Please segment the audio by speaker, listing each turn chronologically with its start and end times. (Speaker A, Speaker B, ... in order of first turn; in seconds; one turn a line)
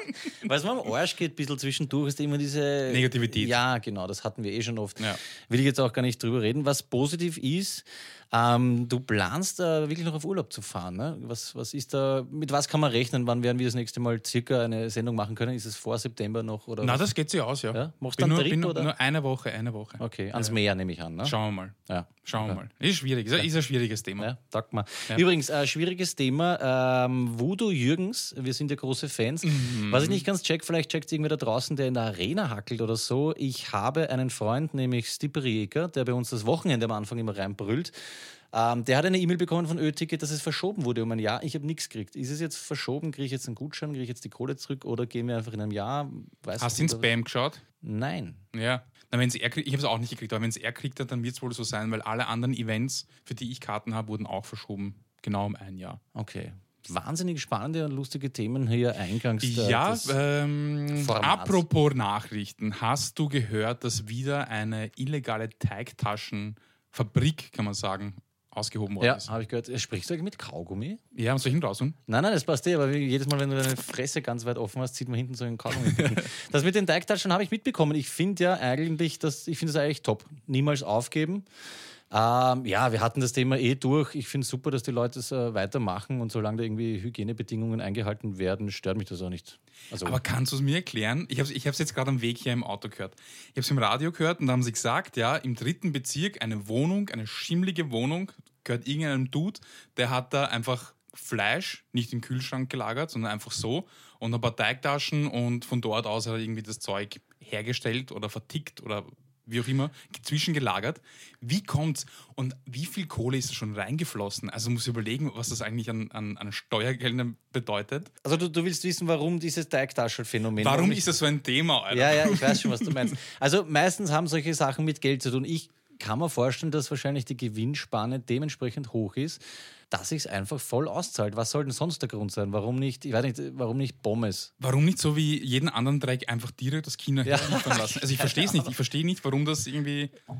Speaker A: 0.4-17.1
Speaker B: 2.9-3.6
Speaker B: 16.8-20.6
Speaker A: 17.7-18.9
Speaker A: 20.0-21.4
Speaker B: 21.2-24.3
Speaker A: 21.9-22.6
Speaker A: 24.2-37.9
Speaker B: 29.4-30.2
Speaker A: 38.5-47.1
Speaker B: 46.6-47.6
Speaker A: 47.8-48.4
Speaker B: 48.5-56.0
Speaker A: 56.1-60.2
Speaker B: 59.4-69.3
Speaker A: 61.0-61.6
Speaker A: 69.0-71.0
Speaker B: 71.1-72.0
Speaker A: 72.1-81.5
Speaker B: 75.8-76.3
Speaker A: 82.1-90.2
Speaker B: 90.0-118.1
Speaker A: 118.2-121.1
Speaker B: 120.6-123.1
Speaker A: 121.9-134.5
Speaker B: 134.6-140.1
Speaker A: 137.2-138.7